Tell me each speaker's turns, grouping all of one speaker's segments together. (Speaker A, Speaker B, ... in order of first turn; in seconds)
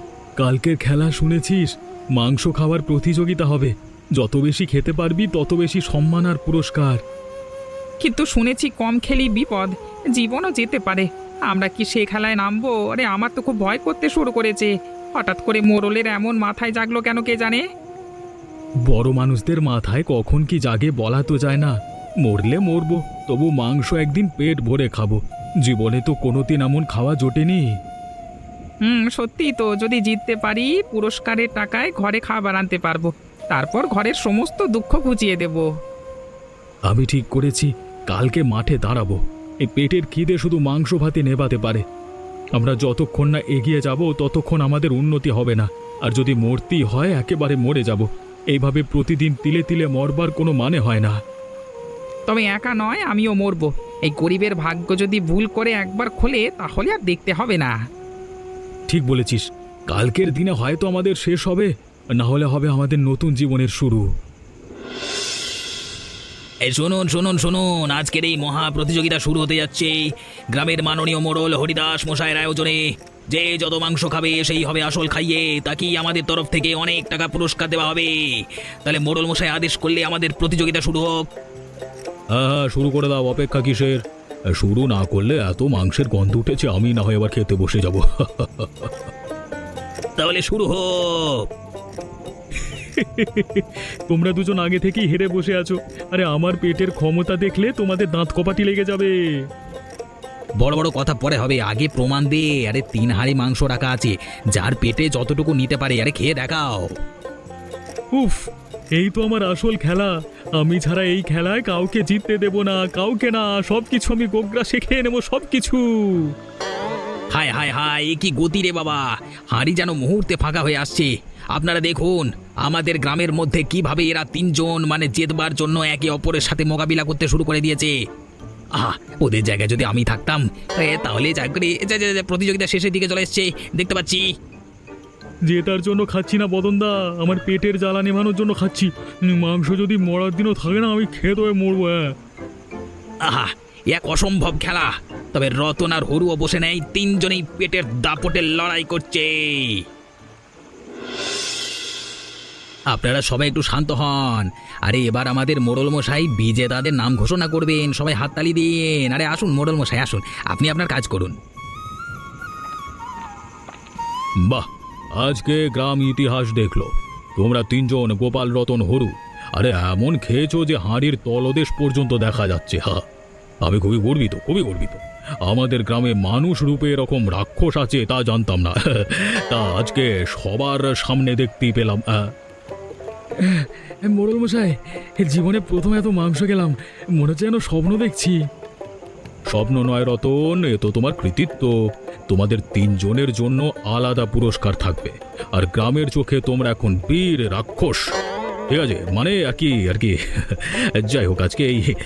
Speaker A: 0.4-7.0, 18.9-27.7, 36.9-41.8, 42.5-51.2, 58.9-64.1, 82.3-84.0, 84.5-88.9, 92.9-99.1, 108.1-108.4, 109.0-116.3, 135.5-142.1, 165.2-173.0, 173.6-182.1, 183.4-188.4, 189.5-191.7, 192.3-198.0, 198.7-201.8
Speaker B: 8.0-17.6, 28.9-35.7, 52.3-57.7
Speaker C: 66.7-81.2, 90.2-91.4, 100.6-106.9, 117.3-127.9, 128.8-134.2, 143.2-149.8, 152.9-161.3